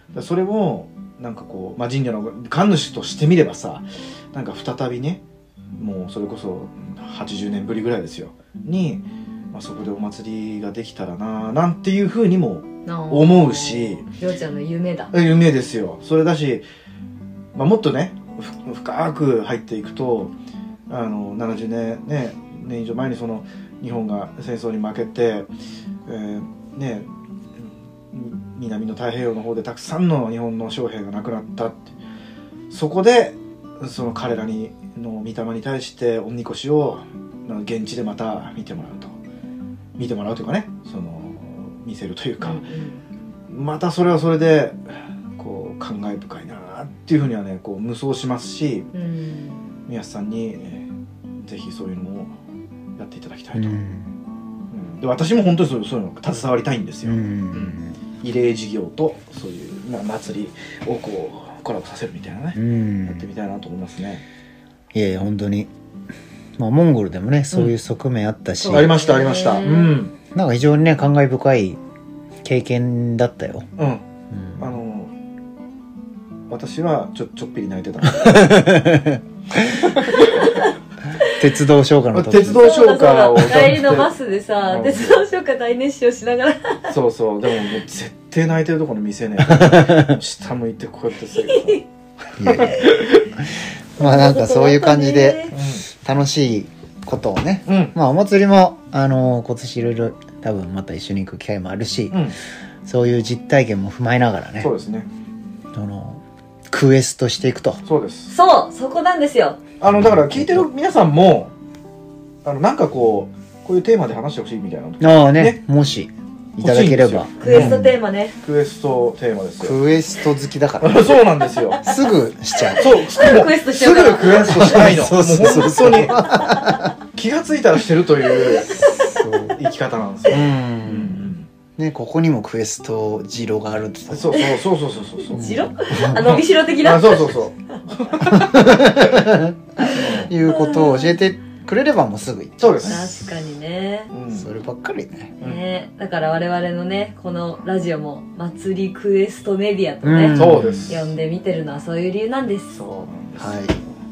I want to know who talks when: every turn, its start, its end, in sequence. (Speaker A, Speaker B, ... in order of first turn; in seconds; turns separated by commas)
Speaker A: 0.1-5.2, Speaker A: 5.8-14.1, Speaker B: 12.8-15.1, Speaker A: 15.1-16.6, Speaker A: 17.5-20.3, Speaker A: 20.9-25.5, Speaker A: 26.1-27.1, Speaker A: 28.1-31.8, Speaker A: 32.7-39.1, Speaker A: 40.0-42.7, Speaker B: 42.4-43.0, Speaker A: 43.5-44.8, Speaker A: 45.4-48.9, Speaker B: 48.9-49.7, Speaker A: 49.9-50.9, Speaker A: 51.4-52.3, Speaker A: 53.0-53.8, Speaker C: 53.5-54.1, Speaker A: 54.7-64.2, Speaker C: 57.0-58.0, Speaker C: 62.5-63.3, Speaker C: 64.9-65.7, Speaker C: 66.6-69.0, Speaker B: 68.6-70.0, Speaker A: 68.7-70.1, Speaker C: 70.3-71.8, Speaker C: 72.4-73.7, Speaker A: 73.8-74.0, Speaker C: 74.3-74.7, Speaker A: 74.6-75.1, Speaker A: 76.5-78.5, Speaker C: 78.0-79.9, Speaker A: 79.8-80.5, Speaker B: 80.3-80.7, Speaker C: 81.3-82.7, Speaker A: 82.1-84.1, Speaker B: 82.4-86.9, Speaker A: 84.7-85.2, Speaker A: 86.9-91.8, Speaker C: 89.5-90.1, Speaker B: 91.3-91.8, Speaker C: 92.4-102.3, Speaker A: 92.4-93.1, Speaker B: 94.0-95.5, Speaker A: 95.5-95.9, Speaker A: 97.7-97.9, Speaker A: 102.1-102.4, Speaker C: 102.8-104.7, Speaker A: 104.6-105.1, Speaker C: 105.7-107.8, Speaker A: 107.8-108.3, Speaker B: 108.3-109.6, Speaker A: 109.8-111.5, Speaker C: 109.9-110.7, Speaker A: 112.4-115.6, Speaker C: 115.0-117.9, Speaker A: 116.6-117.8, Speaker B: 117.4-118.4, Speaker A: 118.4-119.8, Speaker C: 119.6-121.1, Speaker A: 120.8-121.8, Speaker C: 121.8-122.9, Speaker B: 122.6-124.9, Speaker A: 122.8-126.4, Speaker C: 124.4-126.9, Speaker B: 126.3-126.8, Speaker A: 127.1-128.8, Speaker B: 128.4-129.3, Speaker C: 129.0-129.6, Speaker A: 129.6-131.5, Speaker C: 130.3-134.5, Speaker A: 134.1-135.5, Speaker B: 135.3-137.8, Speaker C: 135.3-136.2, Speaker A: 136.0-139.3, Speaker C: 138.3-143.1, Speaker B: 139.8-141.2, Speaker A: 139.9-140.3, Speaker A: 142.6-143.2, Speaker B: 142.8-144.1, Speaker A: 144.1-144.5, Speaker C: 144.3-145.3, Speaker B: 145.4-152.8, Speaker C: 150.0-151.0, Speaker A: 150.3-151.1, Speaker A: 152.7-153.7, Speaker C: 153.4-153.8